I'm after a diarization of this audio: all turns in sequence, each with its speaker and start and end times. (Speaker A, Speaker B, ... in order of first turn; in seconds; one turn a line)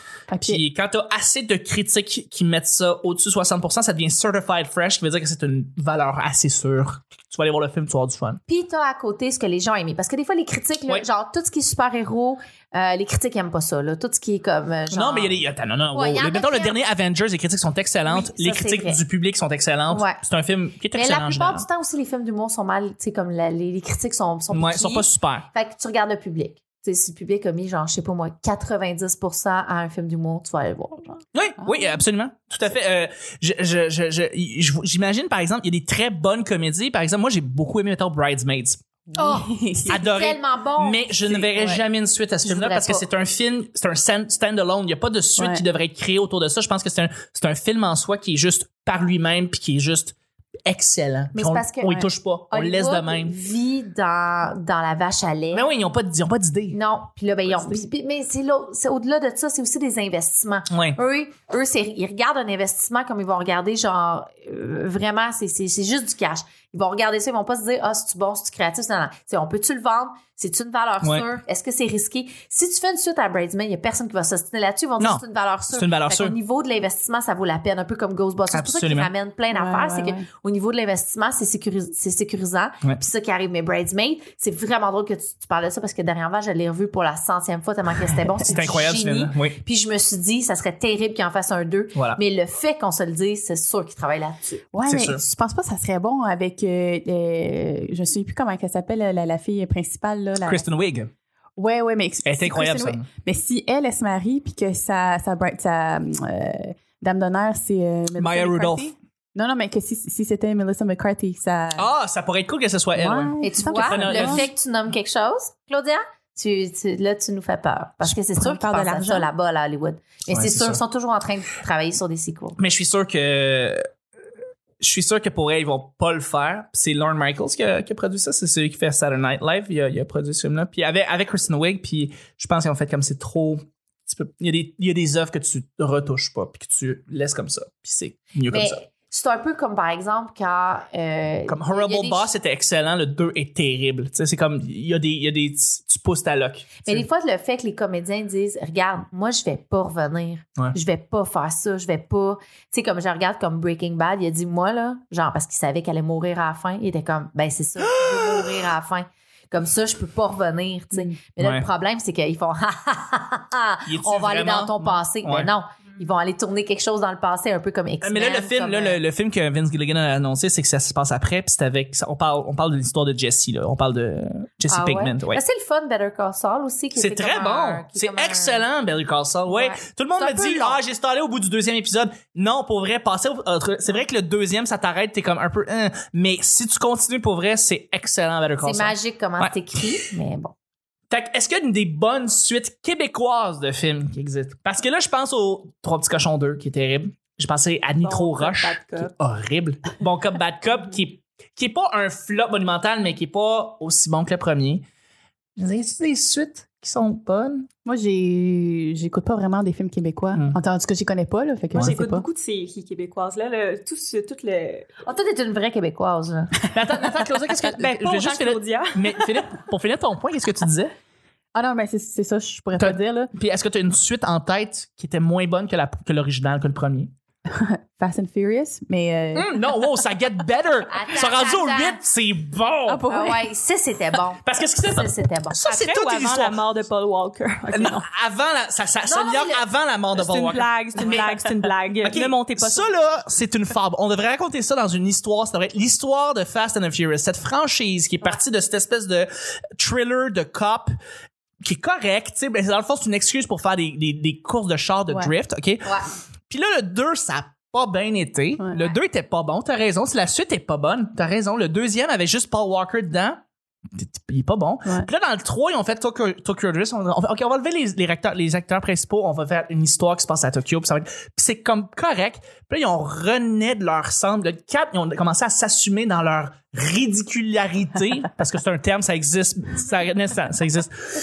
Speaker A: 0.3-0.6
Speaker B: 0.4-8.4
Speaker C: 8.5-15.4
Speaker B: 14.9-21.6
Speaker C: 15.9-16.8
Speaker C: 18.1-19.0
Speaker C: 19.9-20.2
Speaker C: 20.9-31.2
Speaker B: 24.5-25.5
Speaker B: 31.3-38.8
Speaker A: 31.6-31.9
Speaker A: 39.1-40.0
Speaker C: 39.1-41.7
Speaker B: 39.9-53.4
Speaker A: 41.5-41.8
Speaker C: 42.5-43.1
Speaker A: 45.4-45.6
Speaker C: 51.3-55.7
Speaker B: 55.5-56.8
Speaker C: 56.7-94.7
Speaker B: 60.7-61.0
Speaker B: 71.0-71.3
Speaker B: 75.0-76.4
Speaker B: 78.5-79.1
Speaker A: 79.5-80.3
Speaker B: 88.5-89.6
Speaker B: 92.0-92.2
Speaker A: 94.7-100.7
Speaker B: 94.8-95.2
Speaker B: 100.4-101.1
Speaker A: 101.6-111.9
Speaker B: 102.2-103.1
Speaker B: 108.2-108.9
Speaker B: 111.8-114.5
Speaker A: 113.0-114.5
Speaker C: 113.4-122.6
Speaker A: 118.3-119.3
Speaker B: 120.3-120.8
Speaker B: 122.6-123.8
Speaker B: 124.8-138.8
Speaker C: 138.5-142.3
Speaker B: 141.5-147.0
Speaker C: 146.8-169.0
Speaker B: 157.8-158.6
Speaker B: 161.4-161.7
Speaker B: 163.9-165.5
Speaker B: 168.0-175.4
Speaker C: 174.7-178.7
Speaker B: 177.0-189.6
Speaker C: 179.5-180.8
Speaker C: 188.6-190.5
Speaker B: 191.1-204.8
Speaker D: 198.0-199.1
Speaker B: 205.6-207.7
Speaker A: 207.8-212.3
Speaker B: 210.3-210.6
Speaker D: 211.7-214.9
Speaker C: 215.1-216.6
Speaker B: 216.7-220.9
Speaker D: 217.6-219.2
Speaker A: 221.6-223.3
Speaker B: 222.8-227.1
Speaker A: 227.5-229.7
Speaker B: 229.3-233.0
Speaker C: 230.9-232.0
Speaker A: 232.9-233.5
Speaker C: 233.1-235.6
Speaker B: 234.4-236.6
Speaker D: 235.7-238.1
Speaker B: 237.7-241.5
Speaker C: 239.0-239.7
Speaker D: 240.1-243.1
Speaker B: 242.0-250.9
Speaker B: 251.6-280.9
Speaker C: 255.8-256.1
Speaker C: 258.7-259.0